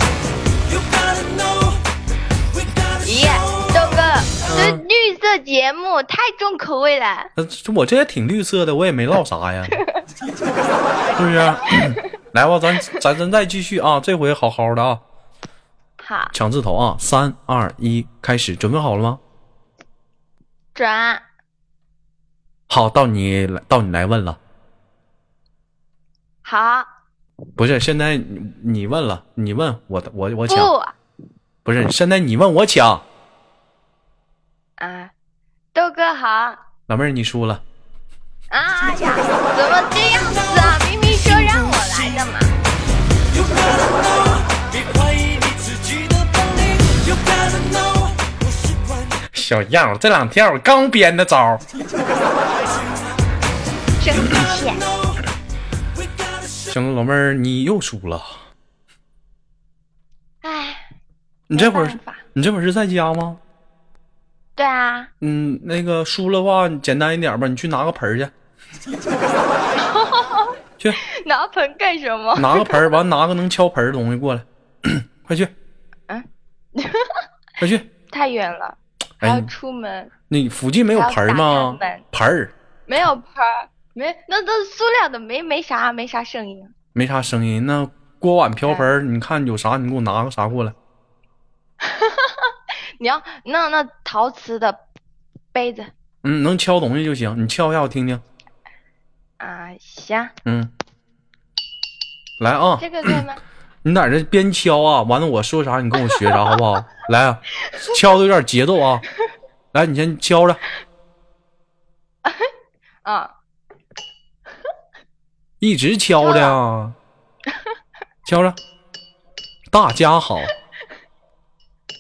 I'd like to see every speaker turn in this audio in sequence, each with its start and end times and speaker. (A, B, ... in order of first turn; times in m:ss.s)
0:00.7-0:01.8 A
0:02.5-0:04.1 A
0:03.0-0:07.3 B
0:04.5-0:04.8 C
0:07.4-0:09.8 C
0:11.2-0:15.0 C
0:16.0-0:16.3 B
0:16.3-0:19.2 C
0:20.8-0:21.2 B
0:22.7-0:24.4 C
0:26.4-0:26.9 B
0:27.6-0:30.7 C
0:30.5-0:31.0 B
0:31.6-0:33.0 C
0:34.8-0:35.1 B
0:35.7-0:36.7 B
0:36.9-0:37.6 C
0:38.5-0:42.6 B
0:41.2-0:41.8 A
0:43.3-0:49.2 A
0:49.3-0:51.6 C
0:54.0-0:54.8 B
0:54.2-0:55.2 A
0:56.0-0:56.7 A
0:56.7-0:58.4 C
1:00.4-1:00.9 B
1:01.5-1:03.4 C
1:01.5-1:02.2 B
1:04.6-1:05.1 B
1:05.2-1:08.3 C
1:09.8-1:12.9 B
1:12.4-1:15.5 C
1:16.1-1:17.3 B
1:17.6-1:17.9 C
1:18.1-1:20.1 B
1:19.2-1:19.5 C
1:20.3-1:22.5 C
1:20.9-1:22.0 B
1:22.9-1:26.7 B
1:27.0-1:30.8 C
1:31.8-1:34.8 B
1:35.5-1:35.9 B
1:36.2-1:38.2 C
1:39.4-1:40.3 B
1:40.5-1:40.7 C
1:42.4-1:43.2 C
1:42.8-1:43.4 B
1:43.8-1:49.0 C
1:49.7-1:50.6 C
1:53.0-1:53.3 B
1:55.6-1:57.0 C
1:56.2-1:56.6 B
1:58.2-1:58.6 C
1:59.7-2:00.5 C